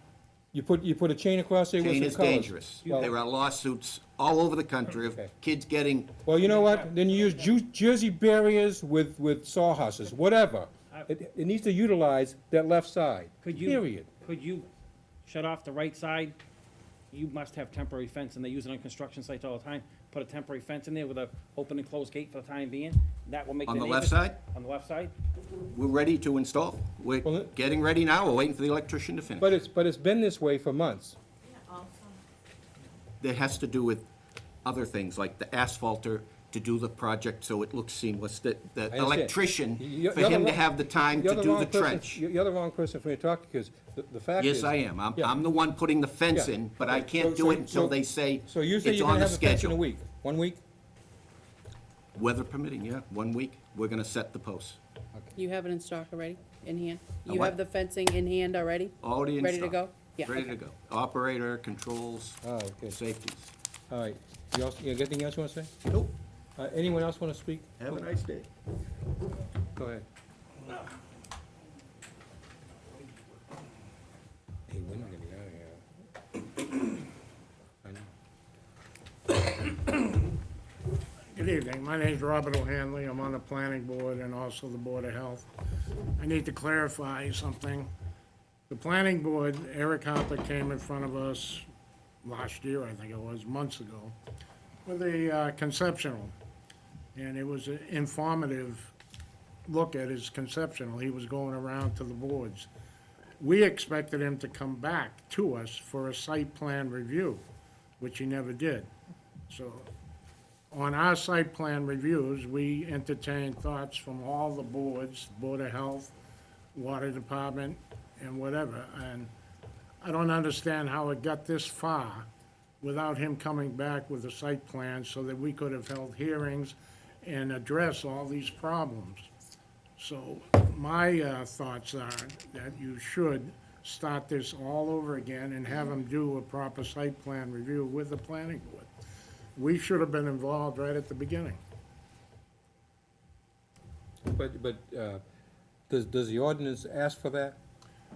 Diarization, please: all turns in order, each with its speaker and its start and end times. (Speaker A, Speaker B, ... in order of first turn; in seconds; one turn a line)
Speaker A: 0.5-3.1
Speaker B: 1.8-6.2
Speaker A: 6.2-14.1
Speaker C: 13.4-14.7
Speaker C: 15.2-16.4
Speaker C: 17.1-25.1
Speaker B: 23.6-24.4
Speaker B: 25.7-29.5
Speaker A: 27.2-27.5
Speaker A: 29.4-31.2
Speaker B: 33.2-34.0
Speaker B: 34.6-42.2
Speaker A: 38.9-45.3
Speaker B: 44.4-49.8
Speaker A: 46.3-50.6
Speaker B: 52.1-54.8
Speaker D: 55.3-60.4
Speaker B: 57.2-57.6
Speaker B: 59.0-63.5
Speaker A: 62.4-63.0
Speaker A: 63.9-65.7
Speaker B: 65.9-66.1
Speaker A: 66.6-68.0
Speaker B: 67.8-68.5
Speaker A: 69.8-70.0
Speaker A: 74.7-75.8
Speaker A: 77.8-78.1
Speaker E: 81.3-85.5
Speaker E: 86.2-87.9
Speaker E: 88.7-91.7
Speaker E: 92.2-94.1
Speaker E: 94.8-96.3
Speaker E: 97.1-98.9
Speaker E: 99.7-102.7
Speaker E: 103.4-107.4
Speaker E: 108.0-108.9
Speaker E: 109.5-109.9
Speaker E: 110.7-116.1
Speaker E: 116.7-119.3
Speaker E: 120.0-122.3
Speaker E: 122.8-129.3
Speaker E: 130.0-138.9
Speaker E: 139.6-141.6
Speaker A: 144.3-145.2
Speaker A: 145.9-147.6